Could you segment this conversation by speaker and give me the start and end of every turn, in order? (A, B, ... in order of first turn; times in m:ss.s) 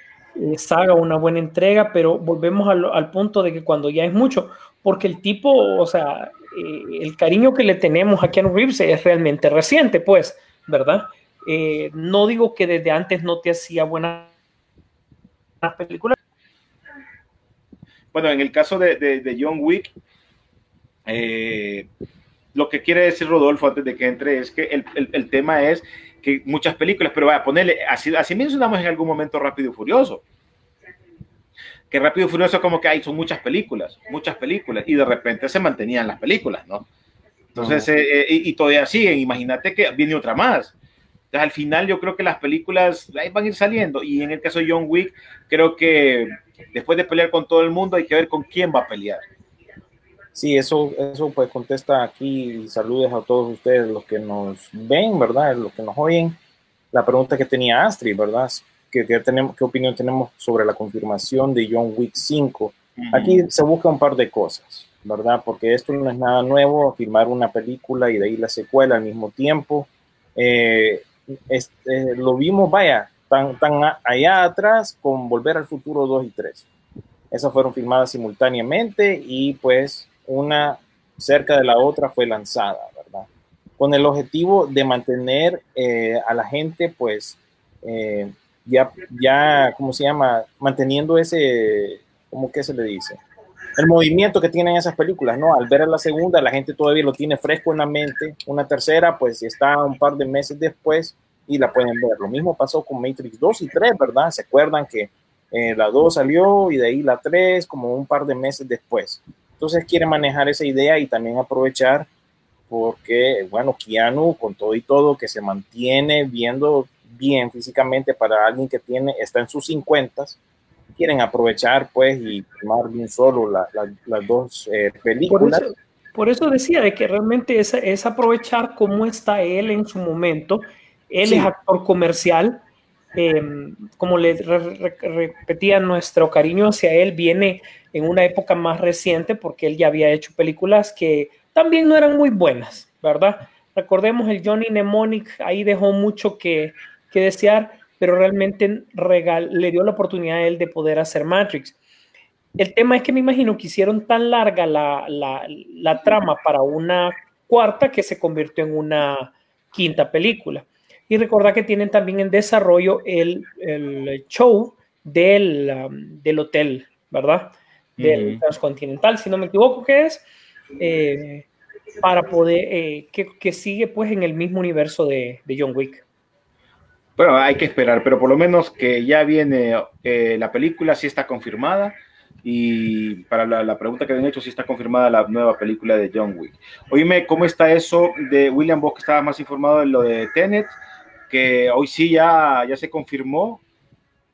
0:00.4-0:14.3 A
0:15.6-0:16.2 A
0:18.1-0:19.9 B
0:21.1-0:21.9 B
0:22.5-0:30.2 B
0:31.9-0:36.9 B
0:37.6-0:40.7 B
0:37.6-0:37.9 C
0:41.3-0:49.2 B
0:50.4-0:56.4 C
0:56.9-1:16.7 C
1:03.0-1:03.4 B
1:17.3-1:23.3 C
1:23.8-1:33.2 C
1:33.8-1:52.1 C
1:52.7-2:00.4 C
2:01.0-2:05.7 C
2:05.3-2:12.6 A
2:11.2-2:11.5 C
2:13.2-2:31.8 A
2:32.6-2:50.2 A
2:48.0-2:48.4 B
2:50.8-2:51.5 A
2:52.0-2:56.0 A
2:57.2-3:10.7 B
3:11.3-3:13.6 B